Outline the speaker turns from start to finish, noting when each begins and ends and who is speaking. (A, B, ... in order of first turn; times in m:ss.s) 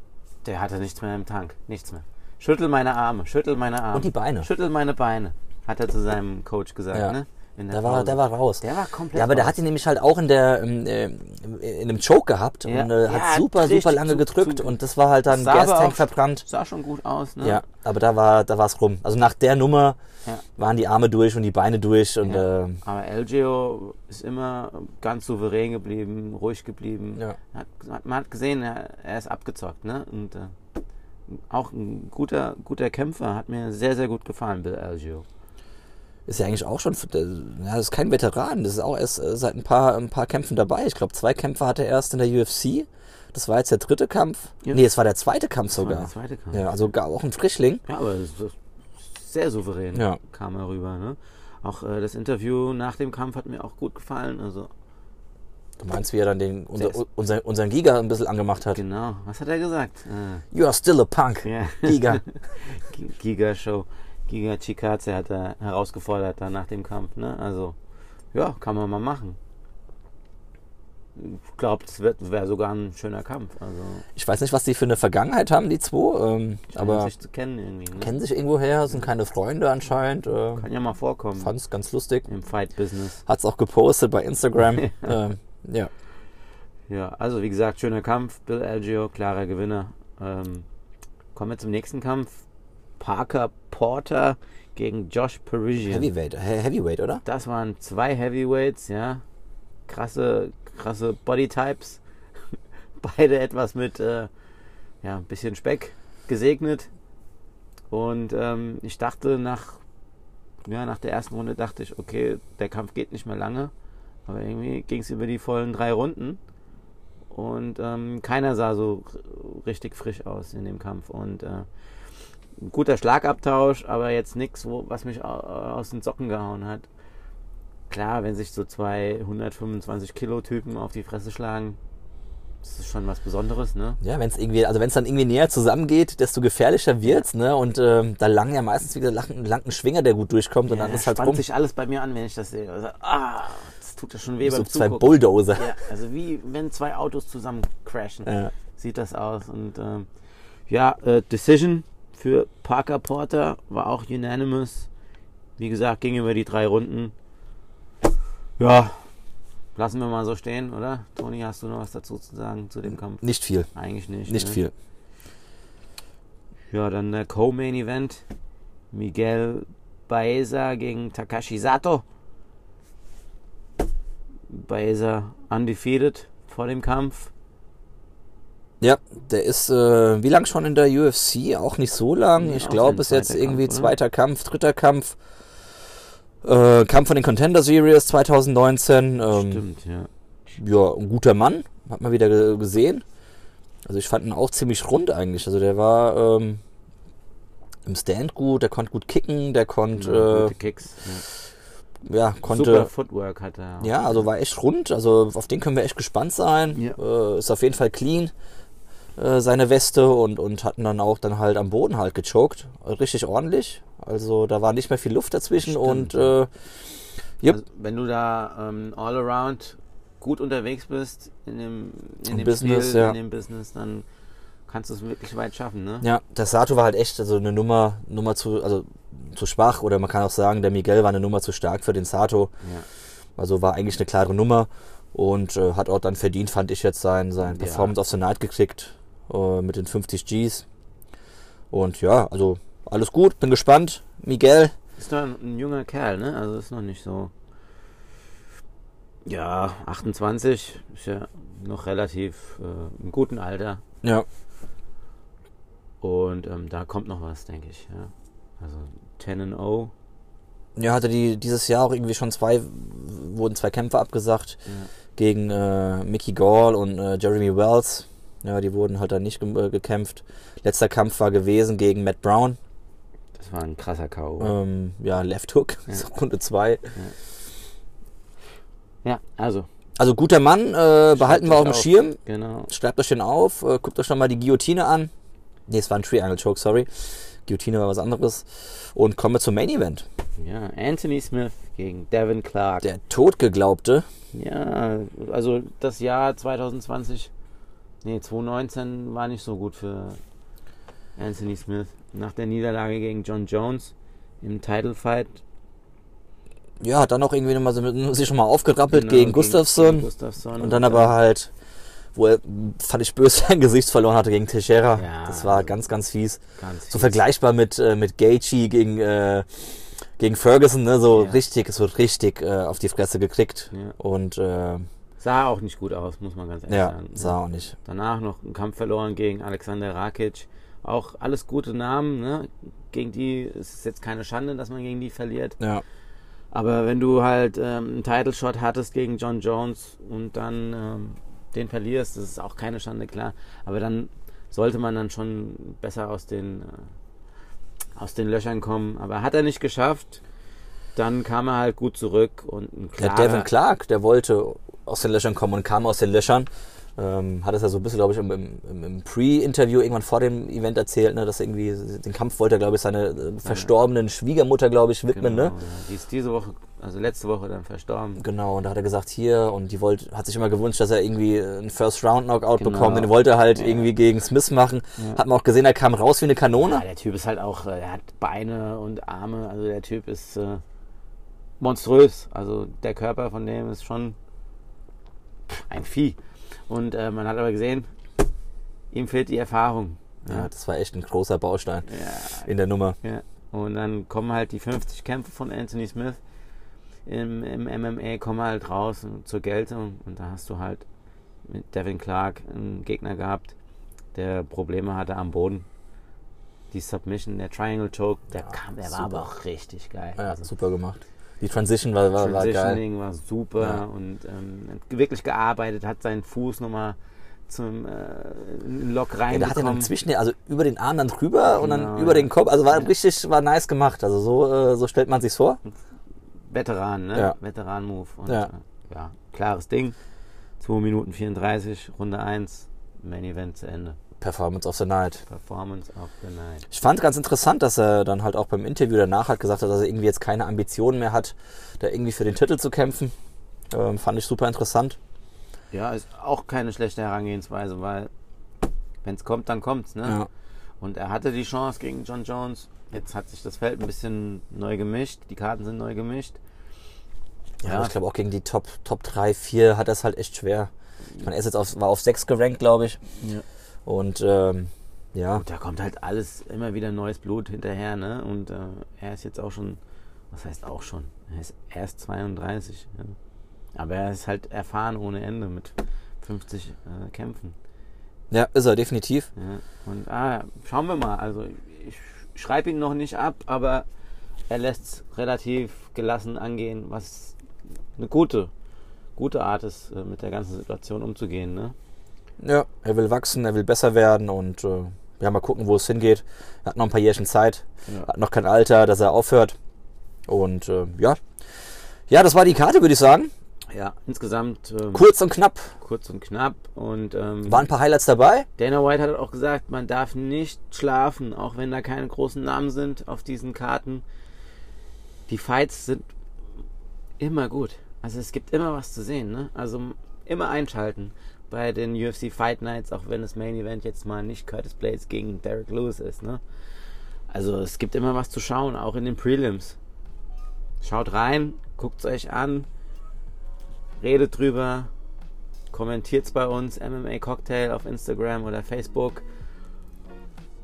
0:00.4-0:09.6 A
0:03.9-0:04.5 B
0:07.7-0:16.4 B
0:12.7-0:17.6 A
0:17.4-0:20.0 B
0:20.6-0:22.8 B
0:22.2-0:30.6 A
0:31.3-0:35.2 A
0:36.3-0:47.8 B
0:45.7-0:46.7 A
0:47.8-0:54.7 A
0:55.8-0:58.8 B
0:58.7-1:00.4 A
1:00.5-1:02.2 B
1:01.4-1:07.8 A
1:08.3-1:09.4 A
1:11.2-1:14.0 A
1:14.2-1:17.1 B
1:16.7-1:18.1 A
1:18.0-1:20.6 B
1:20.6-1:21.5 A
1:21.4-1:22.3 B
1:22.3-1:23.2 A
1:23.3-1:25.9 B
1:24.8-1:25.2 A
1:26.9-1:30.7 A
1:31.4-1:32.4 A
1:33.0-1:36.1 A
1:35.9-1:37.2 B
1:37.2-1:39.2 A
1:39.9-1:42.0 A
1:42.5-1:44.3 A
1:45.0-1:46.9 A
1:47.9-1:49.8 A
1:50.6-1:53.7 A
1:54.3-1:56.4 A
1:57.3-2:01.7 A
2:02.6-2:06.9 A
2:07.9-2:11.8 A
2:12.6-2:14.0 A
2:14.0-2:21.4 B
2:20.7-2:30.1 A
2:24.4-2:25.7 B
2:28.3-2:28.5 B
2:30.7-2:34.9 A
2:35.6-2:37.1 A
2:38.6-2:39.1 A
2:39.8-2:44.6 A
2:43.2-2:43.7 B
2:44.3-2:44.7 B
2:46.7-2:48.2 A
2:48.9-2:52.0 A
2:54.5-2:57.3 A
2:58.8-3:05.2 B
3:02.4-3:03.9 A
3:06.4-3:09.6 B
3:09.3-3:10.1 A
3:10.6-3:13.0 B
3:13.8-3:16.6 B
3:17.8-3:20.5 B
3:20.0-3:21.2 A
3:22.0-3:22.9 B
3:22.5-3:24.2 A
3:23.8-3:28.3 B
3:29.2-3:36.5 B
3:35.6-3:36.3 A
3:37.5-3:44.0 A
3:42.3-3:43.2 B
3:44.7-3:46.1 A
3:46.0-3:52.5 B
3:53.4-4:00.6 B
3:57.4-3:58.0 A
4:01.7-4:04.7 B
4:05.0-4:07.3 A
4:09.3-4:13.8 A
4:16.0-4:19.9 A
4:20.8-4:24.6 B
4:24.7-4:24.9 A
4:25.2-4:32.6 B
4:33.4-4:34.5 A
4:34.4-4:36.9 B
4:39.0-4:39.7 A
4:40.0-4:42.2 B
4:41.1-4:42.7 A
4:42.7-4:45.1 B
4:45.7-4:50.0 B
4:50.4-4:52.9 A
4:52.8-4:54.1 B
4:54.3-4:57.3 A
4:58.0-5:00.2 A
5:01.2-5:05.4 A
5:06.8-5:11.5 B
5:08.9-5:11.2 A
5:12.1-5:24.9 B
5:15.0-5:15.8 A
5:16.6-5:17.2 A
5:21.1-5:21.4 A
5:23.7-5:24.0 A
5:25.2-5:35.6 A
5:26.7-5:27.8 B
5:36.5-5:46.9 A
5:48.0-5:50.2 A
5:51.0-5:53.5 A
5:53.0-6:05.5 B
6:03.4-6:03.7 A
6:05.1-6:08.2 A
6:08.2-6:16.8 B
6:12.6-6:13.9 A
6:16.6-6:20.6 A
6:21.6-6:24.2 A
6:25.5-6:27.9 A
6:28.9-6:30.5 A
6:30.3-6:33.0 B
6:31.9-6:36.2 A
6:37.1-6:40.8 A
6:41.4-6:43.5 A
6:44.1-6:45.7 A
6:46.7-6:50.5 A
6:49.0-6:49.2 B
6:50.2-6:52.8 B
6:52.2-6:59.9 A
6:59.3-7:05.6 B
7:01.5-7:02.9 A
7:06.5-7:10.0 A
7:10.6-7:14.0 A
7:14.2-7:15.2 B
7:15.3-7:16.7 A
7:16.7-7:23.1 B
7:23.7-7:25.0 B
7:25.7-7:28.1 A
7:29.0-7:30.2 A
7:30.8-7:36.4 A
7:37.6-7:43.0 B
7:37.6-7:37.9 A
7:43.9-7:45.4 B
7:45.3-7:49.8 A
7:50.3-7:53.2 A
7:53.8-7:57.6 A
7:58.3-7:59.3 B
7:59.4-8:03.9 A
8:04.5-8:07.4 A
8:08.0-8:08.5 A
8:09.2-8:11.8 A
8:12.4-8:19.6 B
8:20.3-8:21.2 B
8:22.1-8:23.3 B
8:23.7-8:25.1 A
8:24.9-8:25.7 B
8:25.8-8:27.7 A
8:27.5-8:28.5 B
8:28.6-8:34.0 A
8:35.3-8:36.1 A
8:37.2-8:46.4 A
8:47.3-8:49.8 A
8:50.8-8:52.7 A
8:54.0-8:54.9 A
8:55.7-8:59.2 A